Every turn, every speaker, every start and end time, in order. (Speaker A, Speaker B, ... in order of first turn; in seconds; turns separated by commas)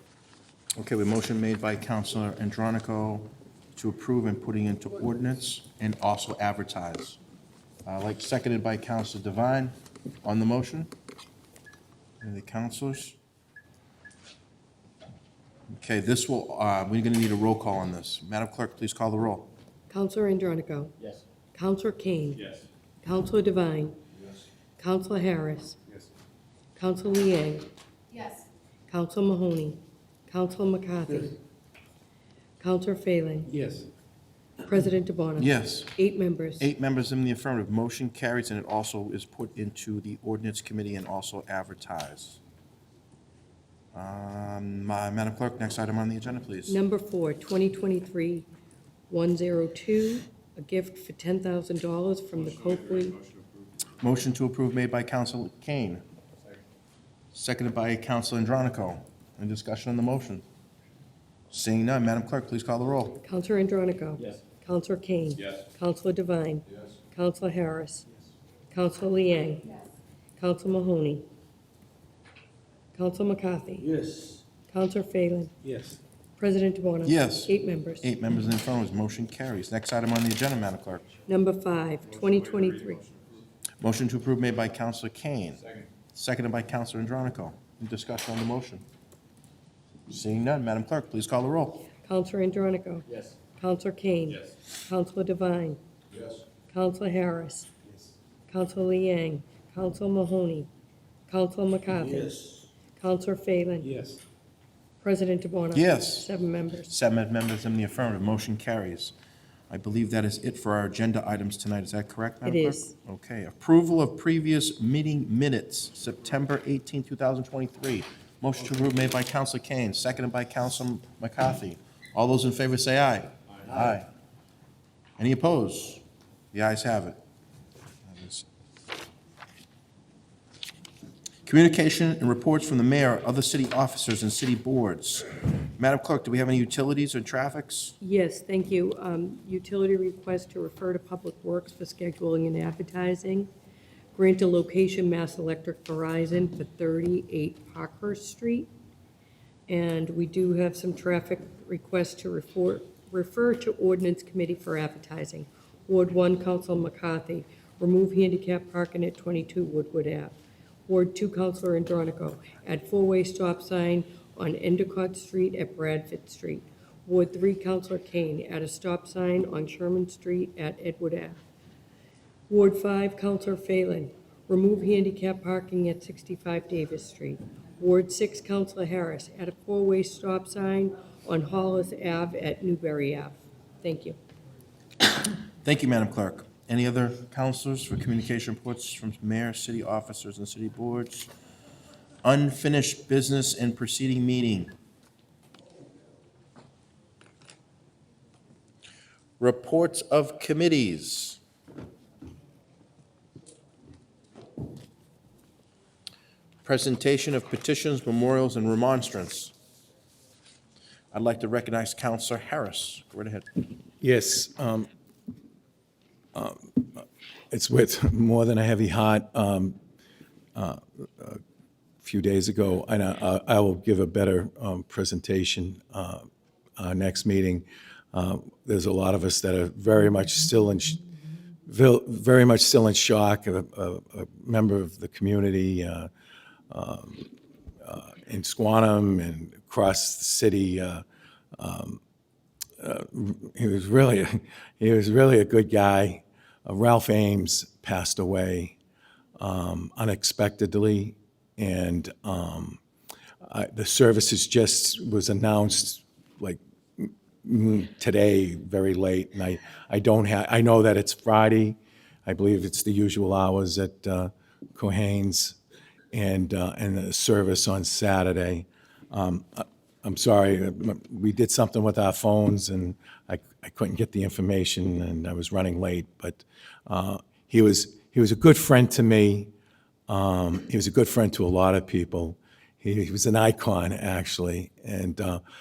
Speaker A: 0.8-7.2, Speaker A: 7.8-10.9, Speaker A: 12.2-13.2, Speaker A: 15.8-19.5, Speaker B: 19.9-20.9, Speaker B: 21.5-22.4, Speaker B: 23.0-24.0, Speaker B: 24.8-25.8, Speaker B: 26.8-27.7, Speaker B: 28.9-31.4, Speaker B: 32.6-33.5, Speaker C: 33.5-33.9, Speaker B: 34.6-36.7, Speaker A: 35.4-36.0, Speaker A: 36.6-42.4, Speaker A: 43.9-46.8, Speaker B: 46.7-48.5, Speaker B: 49.1-53.2, Speaker C: 53.2-53.5, Speaker A: 54.0-56.0, Speaker A: 57.3-60.4, Speaker A: 61.5-63.2, Speaker B: 63.2-68.0, Speaker B: 68.7-69.8, Speaker B: 70.4-71.2, Speaker B: 72.9-73.9, Speaker C: 73.8-74.4, Speaker B: 74.7-75.5, Speaker C: 75.6-76.0, Speaker B: 76.4-78.1, Speaker A: 77.0-81.0, Speaker B: 81.3-83.0, Speaker A: 83.8-88.8, Speaker A: 90.1-91.9, Speaker B: 92.0-93.0, Speaker B: 93.5-95.8, Speaker B: 96.7-97.7, Speaker B: 98.5-100.7, Speaker B: 101.3-102.3, Speaker C: 101.9-102.6, Speaker B: 103.0-103.9, Speaker C: 103.8-104.2, Speaker B: 105.0-106.9, Speaker A: 105.7-106.3, Speaker A: 106.9-109.1, Speaker A: 109.7-124.1, Speaker B: 112.4-112.9, Speaker A: 125.2-127.2, Speaker A: 128.1-128.4, Speaker A: 131.4-137.9, Speaker B: 138.0-143.5, Speaker B: 144.1-148.7, Speaker B: 149.7-171.4, Speaker B: 172.5-184.2, Speaker A: 185.6-191.3, Speaker A: 192.2-194.7, Speaker A: 199.4-201.4, Speaker A: 206.6-209.5, Speaker A: 211.1-213.4, Speaker D: 214.0-214.9, Speaker D: 216.3-219.8, Speaker D: 220.5-221.4, Speaker D: 222.0-231.0, Speaker D: 231.7-236.1, Speaker D: 236.7-237.3, Speaker D: 237.8-241.0, Speaker D: 241.6-242.0, Speaker D: 242.8-248.7, Speaker D: 249.4-252.8, Speaker D: 253.4-265.6, Speaker D: 266.1-279.5, Speaker D: 280.1-285.4